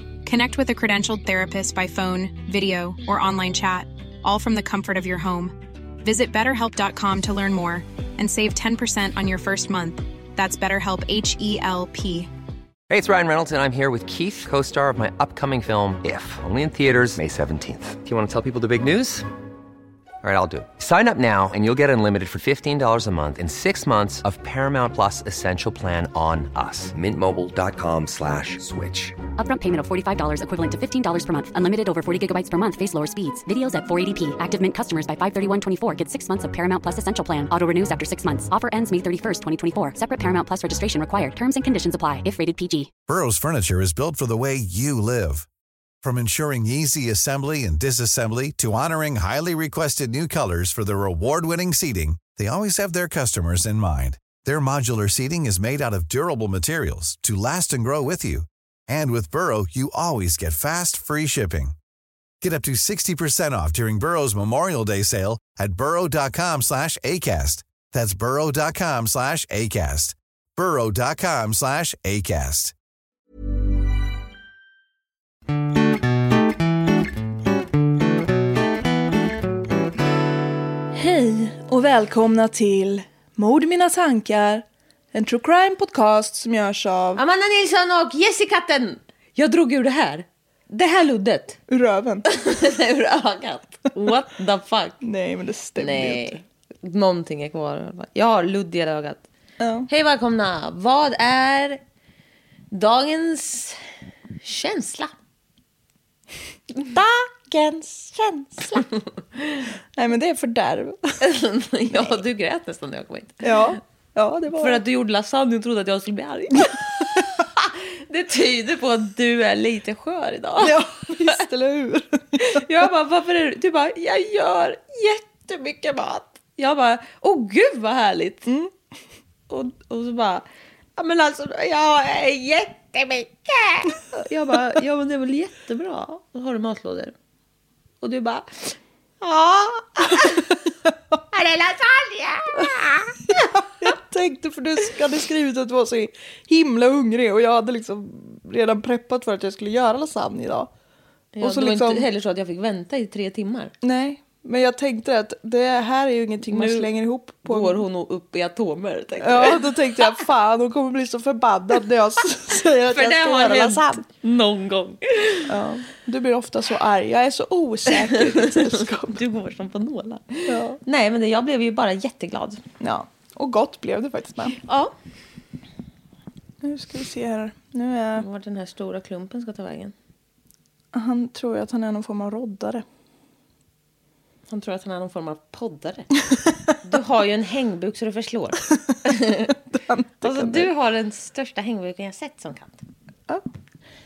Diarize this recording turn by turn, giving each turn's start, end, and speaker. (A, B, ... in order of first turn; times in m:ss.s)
0:00.2-0:12.3 A
0:12.9-0:19.2 B
0:20.2-0:29.1 B
0:29.4-0:42.9 C
0:43.1-0:45.5 D
0:46.0-1:01.8 D
1:02.4-1:12.7 D
1:20.9-1:27.2 E
1:27.2-1:31.6 F
1:31.7-1:32.2 E
1:32.2-1:35.0 F
1:35.0-1:36.4 E
1:35.8-1:39.2 F
1:39.6-1:39.9 E
1:39.9-1:41.8 F
1:42.7-1:43.8 F
1:44.4-1:45.1 F
1:46.8-1:48.9 E
1:49.9-1:51.2 E
1:51.2-1:53.8 F
1:53.4-1:54.8 E
1:54.5-2:01.4 F
2:00.6-2:02.4 E
2:02.4-2:08.4 F
2:08.4-2:08.7 E
2:09.5-2:10.4 F
2:11.0-2:17.1 F
2:18.0-2:20.6 F
2:21.3-2:23.4 F
2:23.3-2:30.7 E
2:31.3-2:33.7 F
2:31.4-2:32.0 E
2:33.8-2:37.8 E
2:36.5-2:36.9 F
2:37.4-2:40.1 F
2:39.2-2:44.0 E
2:42.9-2:45.5 F
2:45.5-2:49.2 E
2:48.2-2:52.6 F
2:50.5-2:50.8 E
2:52.8-2:54.6 E
2:54.6-2:54.9 F
2:56.6-2:58.2 E
2:58.2-2:59.9 F
3:00.9-3:02.8 E
3:04.5-3:06.1 F
3:06.8-3:09.5 F
3:09.7-3:10.7 E
3:10.2-3:12.8 F